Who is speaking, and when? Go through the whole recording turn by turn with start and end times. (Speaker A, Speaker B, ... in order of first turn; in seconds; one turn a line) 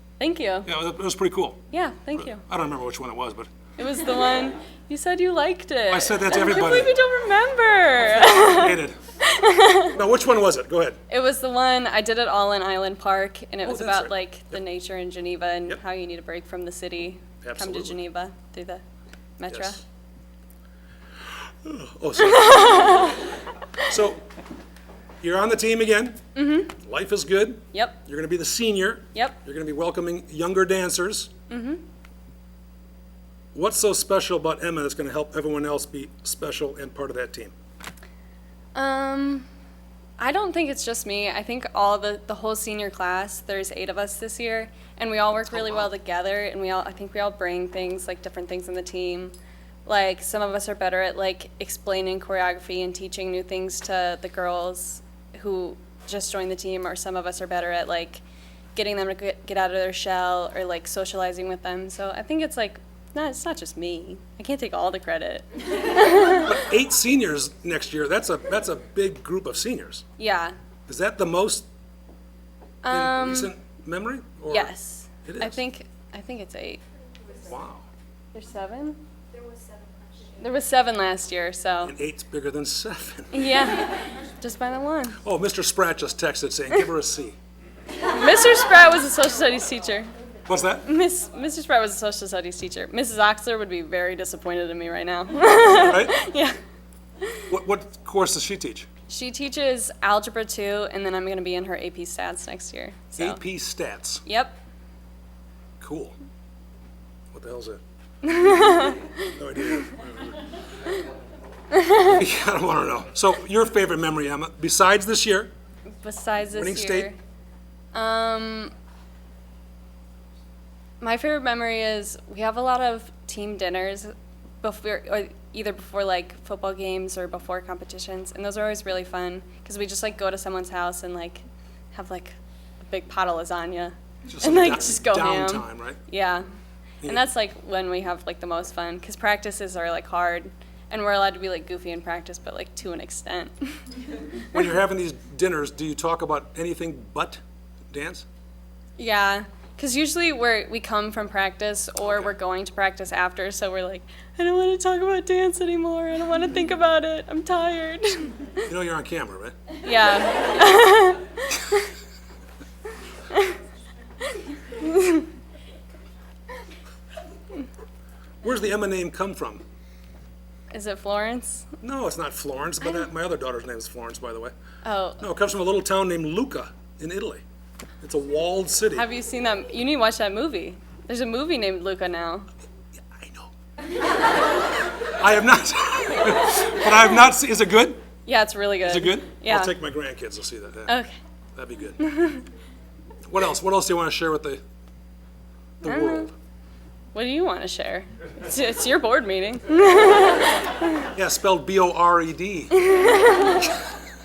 Speaker A: 0.2-0.7
Speaker B: 0.7-1.6
Speaker A: 1.7-2.4
Speaker B: 2.2-3.5
Speaker A: 3.8-9.9
Speaker B: 5.9-6.9
Speaker B: 8.0-9.0
Speaker B: 9.9-11.0
Speaker A: 11.1-18.8
Speaker B: 13.6-14.6
Speaker B: 17.4-18.0
Speaker A: 19.4-19.8
Speaker B: 19.5-19.8
Speaker B: 21.6-23.1
Speaker A: 22.2-23.2
Speaker B: 23.9-24.3
Speaker B: 25.2-26.2
Speaker A: 26.4-26.8
Speaker B: 26.8-31.3
Speaker A: 31.5-31.8
Speaker B: 33.5-37.5
Speaker A: 38.7-39.5
Speaker A: 40.2-49.3
Speaker B: 45.5-45.9
Speaker A: 49.9-58.2
Speaker A: 58.8-66.5
Speaker B: 66.4-70.0
Speaker A: 70.2-70.5
Speaker B: 70.9-71.7
Speaker A: 72.8-73.5
Speaker B: 72.9-74.7
Speaker A: 74.5-76.8
Speaker B: 75.2-75.6
Speaker B: 77.4-77.9
Speaker A: 78.3-79.0
Speaker A: 80.4-81.9
Speaker B: 81.8-83.4
Speaker A: 83.3-85.2
Speaker B: 85.2-87.4
Speaker A: 88.1-90.1
Speaker B: 90.5-90.9
Speaker A: 90.8-96.6
Speaker B: 95.8-96.2
Speaker B: 97.5-98.9
Speaker A: 99.1-103.4
Speaker B: 103.2-104.2
Speaker A: 104.2-104.6
Speaker B: 105.8-106.2
Speaker B: 107.3-107.8
Speaker A: 108.2-109.9
Speaker B: 109.3-110.4
Speaker A: 111.7-112.2
Speaker B: 112.0-115.5
Speaker A: 116.0-117.2
Speaker B: 116.5-117.1
Speaker A: 117.9-118.7
Speaker A: 121.0-124.1
Speaker A: 124.6-136.4
Speaker B: 134.3-136.0
Speaker A: 137.0-143.8
Speaker B: 144.5-148.2
Speaker A: 149.0-158.5
Speaker B: 152.0-152.3
Speaker B: 158.7-159.6
Speaker A: 159.8-161.7
Speaker A: 164.8-165.2
Speaker B: 168.4-169.6
Speaker A: 170.7-171.7
Speaker B: 171.8-174.5
Speaker A: 172.8-173.1
Speaker A: 174.8-175.2
Speaker B: 175.2-177.4
Speaker B: 178.0-179.1
Speaker A: 178.9-182.5
Speaker B: 183.1-183.5
Speaker B: 185.2-188.0
Speaker A: 188.2-189.8
Speaker B: 188.8-190.9
Speaker A: 190.9-191.2
Speaker B: 191.5-192.0
Speaker A: 192.0-192.4
Speaker B: 193.3-194.6
Speaker B: 195.8-196.3
Speaker A: 195.8-196.3
Speaker A: 197.1-201.1
Speaker B: 201.1-202.8
Speaker A: 202.8-203.7